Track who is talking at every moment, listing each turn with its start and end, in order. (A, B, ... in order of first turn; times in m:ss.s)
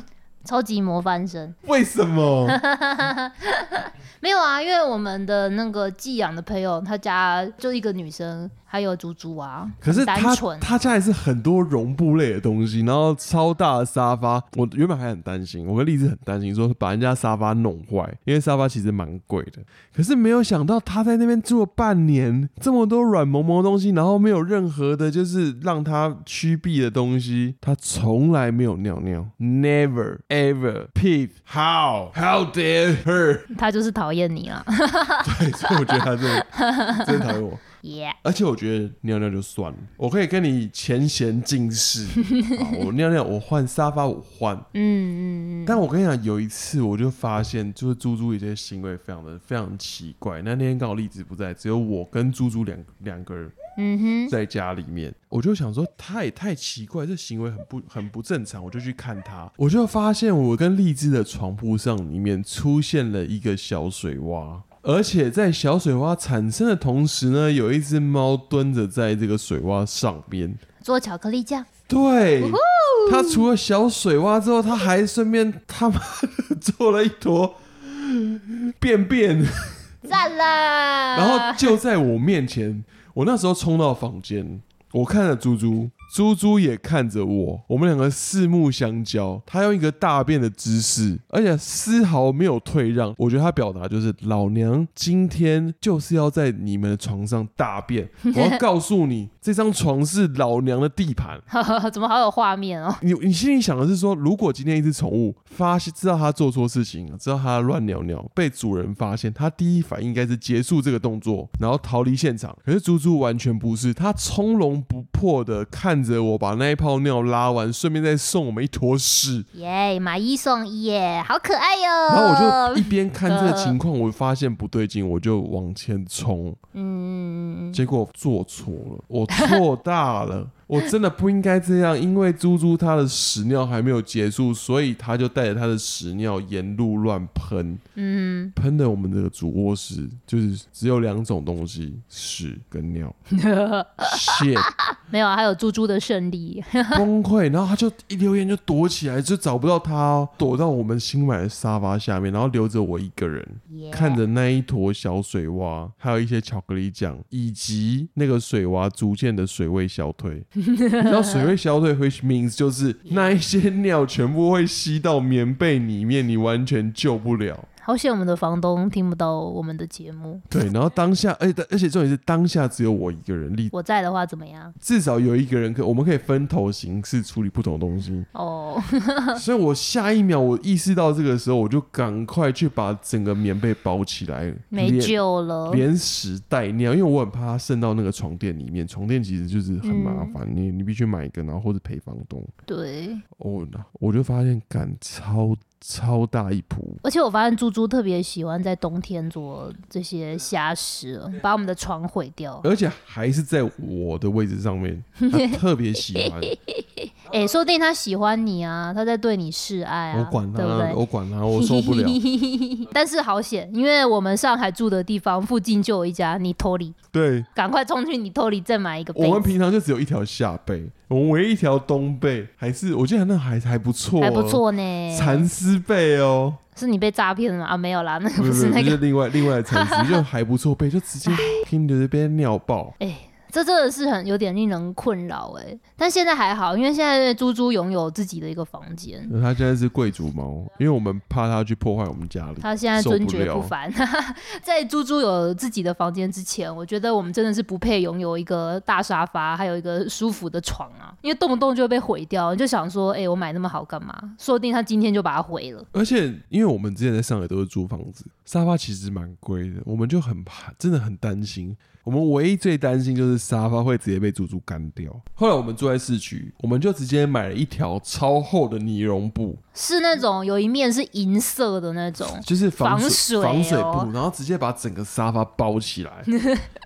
0:00.4-0:01.6 A
0:01.6-0:02.6 B
0:02.4-0:10.8 A
0:09.8-0:33.5 B
0:33.5-0:38.2 A
0:35.2-0:37.6 B
0:38.2-0:44.7 B
0:42.4-0:42.6 A
0:44.7-0:45.8 A
0:45.6-0:53.5 B
0:53.8-0:54.3 A
0:54.3-1:10.6 B
1:10.8-1:11.7 A
1:11.9-1:19.9 B
1:12.4-1:13.4 A
1:20.0-1:21.7 A
1:21.1-1:41.4 B
1:38.2-1:38.6 A
1:41.5-1:43.0 A
1:43.0-1:59.4 B
1:59.5-2:03.8 A
2:02.1-2:06.6 B
2:06.7-2:07.8 A
2:07.7-2:17.8 B
2:18.0-2:18.5 A
2:18.6-2:23.2 B
2:23.3-2:27.0 A
2:24.0-2:24.7 B
2:26.9-2:40.5 B
2:33.7-2:34.2 A
2:40.7-2:41.5 A
2:41.0-2:47.7 B
2:47.8-2:50.4 A
2:50.5-2:53.7 B
2:53.7-2:54.7 A
2:54.8-2:58.3 B
2:58.3-2:59.4 A
2:59.4-3:05.2 B
3:04.7-3:05.8 A
3:05.7-3:12.5 B
3:09.8-3:10.3 A
3:12.7-3:13.2 A
3:13.4-3:17.0 B
3:17.0-3:22.6 A
3:22.6-3:26.6 B
3:25.2-3:25.6 A
3:26.2-3:31.0 A
3:30.1-3:32.2 B
3:31.5-3:37.0 A
3:37.1-3:37.5 B
3:37.5-3:39.5 A
3:39.1-3:46.6 B
3:44.2-3:45.5 A
3:46.8-3:49.0 A
3:48.4-3:53.0 B
3:49.7-3:50.2 A
3:51.2-3:51.6 A
3:53.0-3:59.3 A
3:59.3-4:03.7 B
4:02.6-4:15.9 A
4:15.9-4:29.6 B
4:29.7-4:34.1 A
4:32.2-4:36.3 B
4:36.4-4:36.6 A